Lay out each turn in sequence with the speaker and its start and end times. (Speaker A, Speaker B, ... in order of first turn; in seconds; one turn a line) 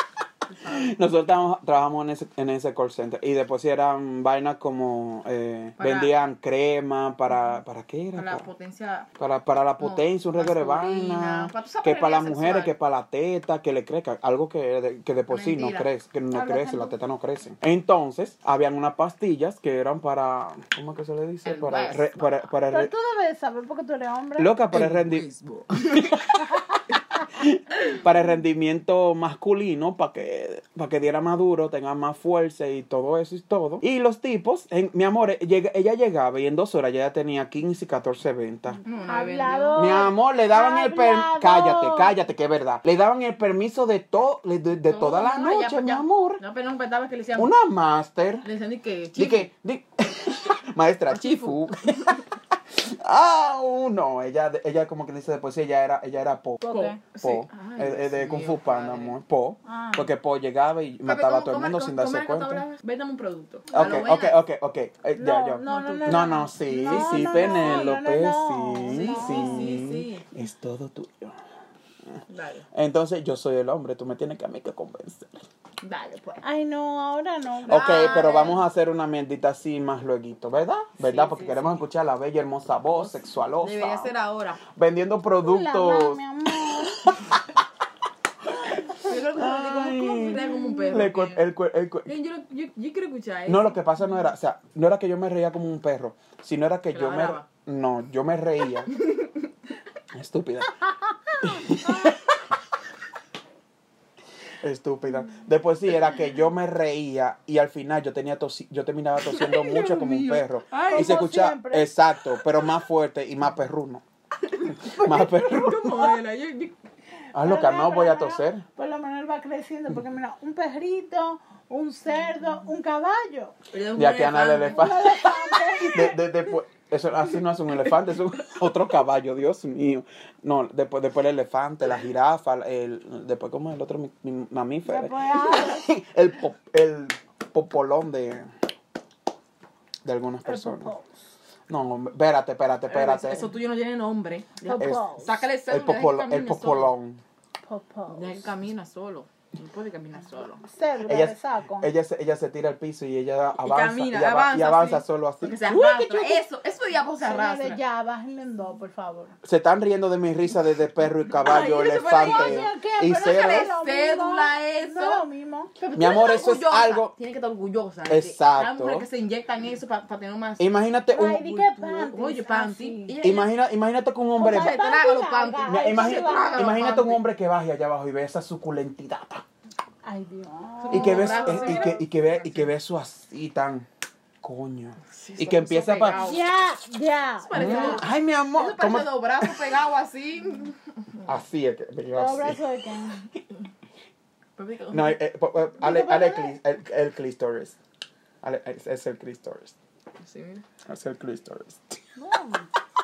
Speaker A: 0.5-1.0
Speaker B: 0.7-8.5
Speaker A: 5.8-6.1
Speaker A: 8.1-9.1
Speaker B: 9.2-22.9
Speaker A: 9.8-12.7
Speaker A: 15.3-15.9
Speaker C: 16.3-16.9
Speaker A: 21.4-22.5
Speaker C: 22.7-24.5
Speaker B: 24.4-25.3
Speaker A: 24.7-26.4
Speaker B: 25.8-38.8
Speaker A: 38.9-40.1
Speaker C: 39.1-42.1
Speaker B: 39.7-46.4
Speaker A: 44.9-47.5
Speaker B: 47.4-48.5
Speaker A: 48.4-49.5
Speaker B: 49.1-52.2
Speaker A: 51.1-52.2
Speaker B: 52.7-62.6
Speaker C: 56.6-57.0
Speaker A: 56.7-59.2
Speaker C: 59.7-60.1
Speaker A: 61.0-64.4
Speaker B: 63.7-71.4
Speaker C: 65.2-69.8
Speaker A: 65.6-68.0
Speaker A: 68.9-70.3
Speaker A: 72.3-72.7
Speaker B: 72.7-75.4
Speaker A: 75.8-76.4
Speaker C: 76.4-78.4
Speaker A: 77.7-78.6
Speaker B: 77.7-84.1
Speaker A: 81.0-81.8
Speaker A: 83.0-84.6
Speaker B: 84.7-87.4
Speaker C: 85.4-87.2
Speaker B: 88.7-92.1
Speaker A: 88.9-91.4
Speaker A: 92.1-93.8
Speaker B: 93.5-98.9
Speaker A: 96.9-97.5
Speaker A: 98.9-99.3
Speaker B: 100.1-100.8
Speaker B: 101.4-102.2
Speaker B: 104.6-114.0
Speaker A: 109.2-111.2
Speaker C: 110.8-111.9
Speaker A: 114.5-116.8
Speaker B: 114.7-116.2
Speaker B: 117.3-118.7
Speaker C: 117.4-123.6
Speaker A: 123.7-125.2
Speaker B: 124.0-138.5
Speaker C: 124.6-126.3
Speaker C: 134.9-135.8
Speaker B: 140.0-140.9
Speaker C: 140.4-141.1
Speaker B: 141.7-143.5
Speaker A: 142.9-146.9
Speaker C: 144.6-145.3
Speaker B: 144.8-147.2
Speaker C: 147.7-148.5
Speaker A: 148.1-150.6
Speaker C: 150.6-151.9
Speaker B: 151.1-156.4
Speaker A: 153.6-157.8
Speaker C: 157.2-159.4
Speaker B: 159.4-163.7
Speaker A: 161.4-165.3
Speaker C: 162.2-165.7
Speaker A: 165.8-170.7
Speaker B: 165.9-167.1
Speaker B: 168.1-169.1
Speaker B: 170.6-171.7
Speaker C: 171.1-173.2
Speaker A: 171.8-173.6
Speaker B: 173.2-174.8
Speaker C: 174.4-176.9
Speaker A: 174.4-177.2
Speaker B: 175.7-179.4
Speaker C: 180.0-182.0
Speaker A: 180.8-182.7
Speaker B: 180.9-183.9
Speaker B: 184.4-186.4
Speaker A: 185.1-186.4
Speaker C: 186.1-188.0
Speaker A: 187.4-191.2
Speaker B: 187.5-189.7
Speaker B: 191.3-192.6
Speaker C: 192.1-193.3
Speaker A: 194.6-195.2
Speaker B: 194.9-197.8
Speaker C: 195.8-196.6
Speaker B: 198.4-199.8
Speaker A: 200.2-200.7
Speaker B: 200.9-202.0
Speaker C: 202.2-202.7